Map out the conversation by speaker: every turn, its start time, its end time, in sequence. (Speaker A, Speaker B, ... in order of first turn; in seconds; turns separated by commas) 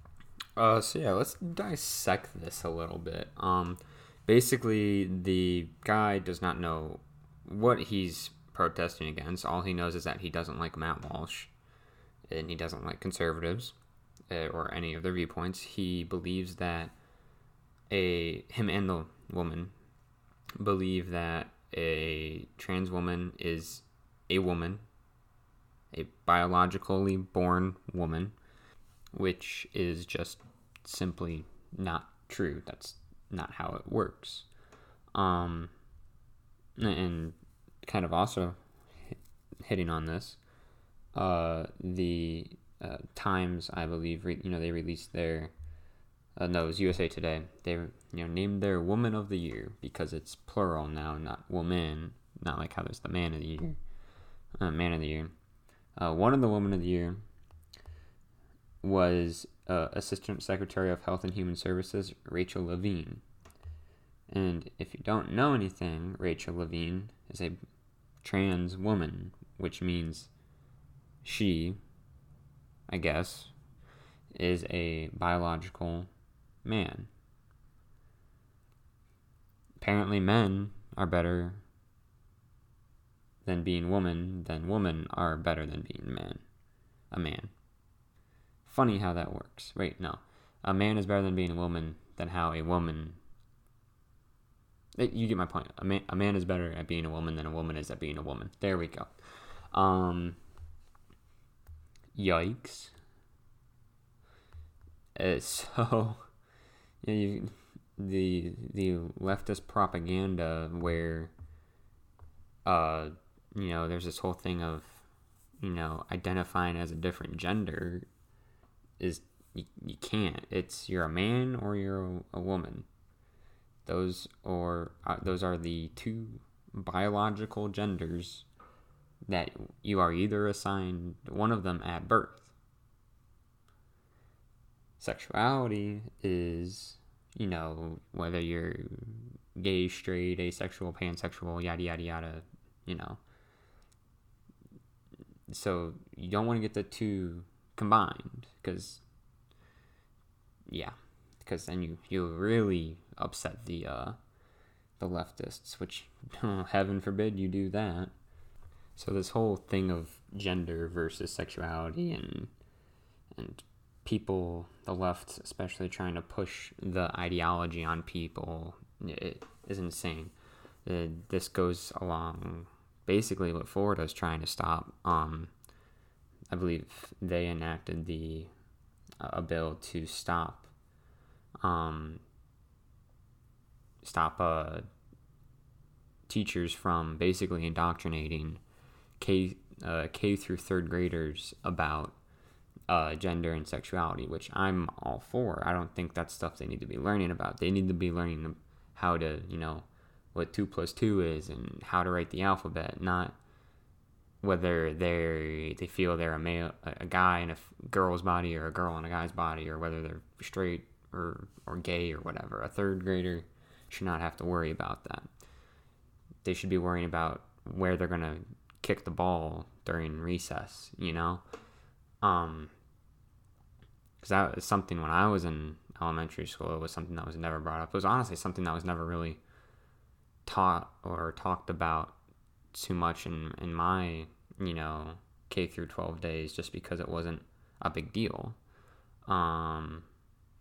Speaker A: 0.6-11.5, Speaker A: 12.3-13.8, Speaker A: 14.3-16.9, Speaker A: 17.9-19.7, Speaker A: 20.6-24.9, Speaker A: 25.9-28.4, Speaker A: 29.1-34.5, Speaker A: 35.1-35.7, Speaker A: 36.8-38.6, Speaker A: 39.1-40.4, Speaker A: 41.1-45.5, Speaker A: 46.4-53.8, Speaker A: 54.6-55.3, Speaker A: 56.0-57.2, Speaker A: 58.8-63.2, Speaker A: 64.3-67.6, Speaker A: 68.2-70.3, Speaker A: 71.2-71.8, Speaker A: 72.9-73.5, Speaker A: 74.3-76.1, Speaker A: 76.7-77.1, Speaker A: 79.8-81.6, Speaker A: 83.5-86.4, Speaker A: 87.1-87.5, Speaker A: 88.7-93.2, Speaker A: 95.0-99.1, Speaker A: 99.7-100.4, Speaker A: 102.1-102.9, Speaker A: 105.2-106.3, Speaker A: 107.0-111.3, Speaker A: 112.7-115.0, Speaker A: 115.6-118.1, Speaker A: 119.0-122.9, Speaker A: 123.9-128.5, Speaker A: 129.3-132.5, Speaker A: 135.0-143.2, Speaker A: 145.5-149.0, Speaker A: 150.7-154.2, Speaker A: 155.0-158.1, Speaker A: 159.0-162.5, Speaker A: 163.3-170.3, Speaker A: 170.8-175.5, Speaker A: 176.5-178.5, Speaker A: 179.2-180.7, Speaker A: 181.6-182.2, Speaker A: 184.0-184.9, Speaker A: 186.3-188.6, Speaker A: 189.2-192.2, Speaker A: 192.9-203.4, Speaker A: 204.4-215.3, Speaker A: 216.4-221.4, Speaker A: 222.2-222.7, Speaker A: 224.2-229.4, Speaker A: 230.5-232.2, Speaker A: 232.7-238.6, Speaker A: 239.3-240.1